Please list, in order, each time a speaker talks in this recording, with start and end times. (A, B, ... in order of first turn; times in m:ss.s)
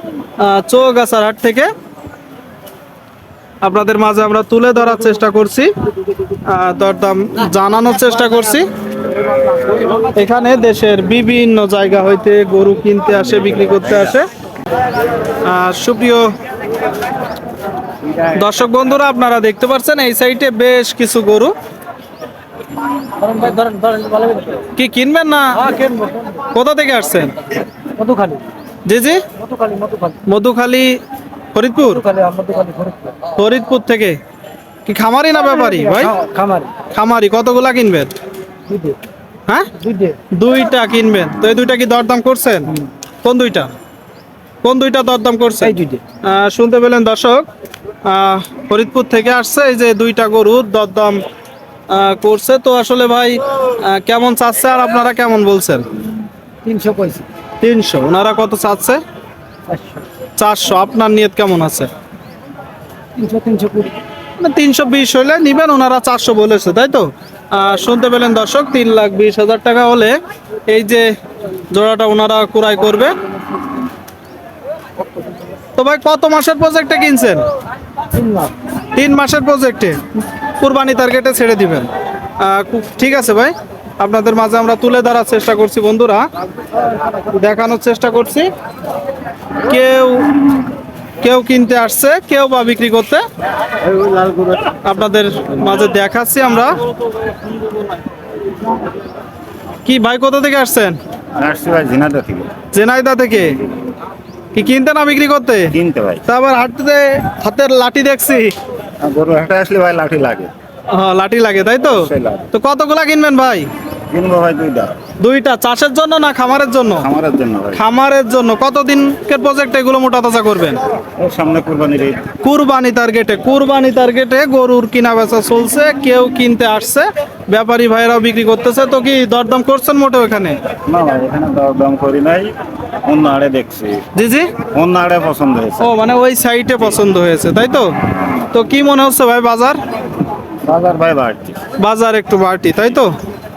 0:00.4-0:01.7 A
0:03.6-0:05.7 A
0:06.5-0:08.7 A
0:10.1-0:14.3 A
0:15.4-0:16.2 A
0:18.3-0:21.5 A
0:23.2-0:24.7 B
0:24.8-0:25.5 A
0:25.6-0:26.4 B
0:26.5-0:27.4 A
0:28.0-0:28.4 B
0:28.8-0:29.2 A
0:29.4-0:30.2 B
0:30.3-0:31.0 A
0:31.5-0:32.0 A
0:31.8-0:33.2 B
0:33.3-0:34.2 A
0:34.8-0:36.1 A
0:35.6-0:36.7 B
0:36.9-0:38.1 A
0:38.7-0:39.0 B
0:39.8-0:40.2 B
0:40.3-0:42.7 A
0:43.2-0:43.7 A
0:44.6-0:47.4 A
0:45.6-0:46.0 B
0:48.0-0:51.2 A
0:51.9-0:55.8 A
0:56.6-0:57.2 B
0:57.6-0:59.0 A
0:59.7-1:00.0 B
1:00.4-1:01.9 A
1:03.2-1:03.9 B
1:04.4-1:10.2 A
1:10.7-1:11.1 A
1:11.7-1:13.1 A
1:15.8-1:17.4 A
1:18.2-1:18.5 B
1:18.9-1:20.0 A
1:20.6-1:21.9 A
1:22.4-1:26.3 A
1:27.3-1:28.5 A
1:29.6-1:30.3 A
1:31.2-1:33.2 A
1:34.0-1:34.4 C
1:34.8-1:36.7 A
1:39.8-1:41.0 A
1:41.4-1:42.5 C
1:42.7-1:43.5 A
1:44.5-1:45.7 A
1:45.7-1:46.2 C
1:46.3-1:48.5 A
1:49.0-1:50.5 C
1:50.9-1:53.7 A
1:51.9-1:52.5 C
1:54.1-1:54.9 C
1:55.2-1:57.0 A
1:57.0-1:57.8 C
1:57.7-2:00.8 A
2:01.2-2:02.2 C
2:02.4-2:10.6 A
2:10.9-2:14.0 C
2:14.2-2:14.5 A
2:14.7-2:15.9 C
2:15.8-2:17.9 A
2:18.5-2:19.8 A
2:20.6-2:21.6 C
2:21.8-2:23.1 A